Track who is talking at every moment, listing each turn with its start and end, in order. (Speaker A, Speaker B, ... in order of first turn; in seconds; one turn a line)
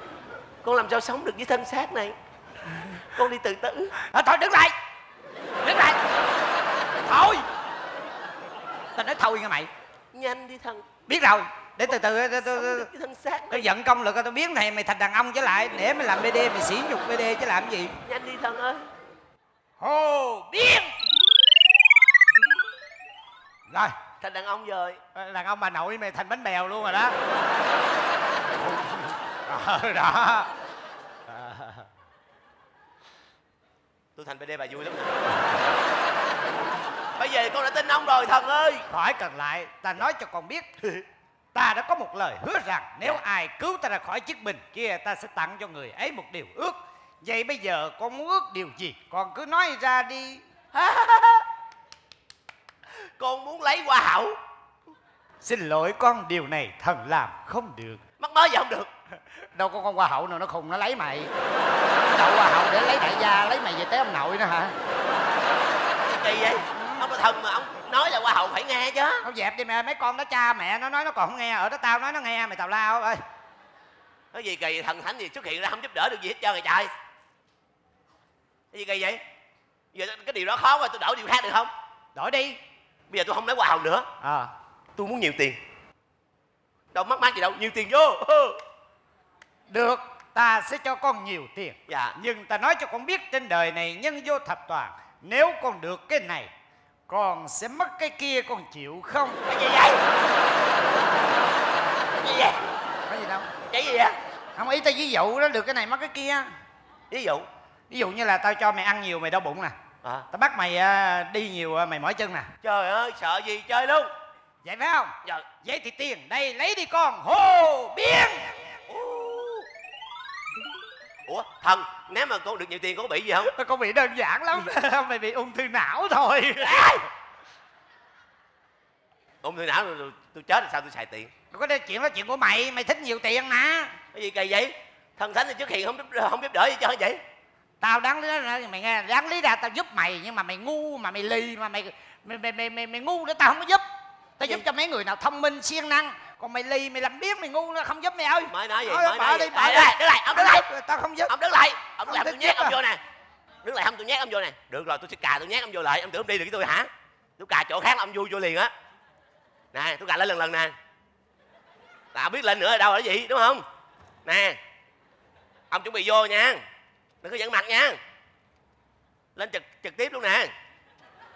Speaker A: 0.6-2.1
Speaker A: 3.1-3.9
Speaker B: 4.1-4.7
Speaker B: 5.6-6.0
Speaker B: 7.0-7.5
Speaker B: 8.9-9.7
Speaker A: 10.1-10.8
Speaker B: 11.1-12.9
Speaker A: 11.9-13.7
Speaker B: 13.5-17.9
Speaker A: 18.0-18.8
Speaker B: 19.8-20.9
Speaker A: 24.2-25.0
Speaker B: 25.1-27.1
Speaker B: 28.6-30.5
Speaker B: 31.3-31.8
Speaker A: 34.1-35.2
Speaker A: 37.2-38.9
Speaker B: 38.9-40.6
Speaker B: 41.5-50.4
Speaker A: 50.7-51.4
Speaker A: 53.2-54.4
Speaker B: 55.4-58.0
Speaker A: 58.2-58.9
Speaker B: 59.5-61.3
Speaker B: 62.1-64.7
Speaker A: 66.0-69.2
Speaker B: 66.8-67.0
Speaker B: 69.2-73.2
Speaker A: 74.3-76.9
Speaker A: 78.7-79.2
Speaker A: 79.9-81.7
Speaker B: 82.2-82.6
Speaker A: 83.1-84.1
Speaker B: 84.2-84.5
Speaker A: 85.0-85.6
Speaker A: 86.9-88.6
Speaker B: 89.7-96.5
Speaker A: 91.9-92.2
Speaker B: 97.1-99.4
Speaker A: 99.5-100.0
Speaker A: 102.2-102.6
Speaker B: 103.1-103.5
Speaker A: 103.7-104.2
Speaker B: 104.6-106.5
Speaker A: 107.1-107.5
Speaker B: 107.9-109.7
Speaker B: 110.3-112.5
Speaker A: 112.6-114.1
Speaker B: 114.6-118.5
Speaker A: 118.9-119.7
Speaker A: 121.2-123.5
Speaker B: 123.5-127.0
Speaker A: 126.6-127.0
Speaker A: 129.4-131.3
Speaker B: 131.5-133.9
Speaker A: 134.1-137.2
Speaker B: 137.8-143.8
Speaker B: 144.4-151.3
Speaker A: 148.5-150.7
Speaker A: 151.2-153.0
Speaker B: 152.1-152.8
Speaker A: 153.6-158.7
Speaker A: 159.7-160.7
Speaker A: 162.1-163.6
Speaker A: 164.2-164.6
Speaker A: 165.7-166.6
Speaker A: 167.2-168.0
Speaker A: 169.3-170.5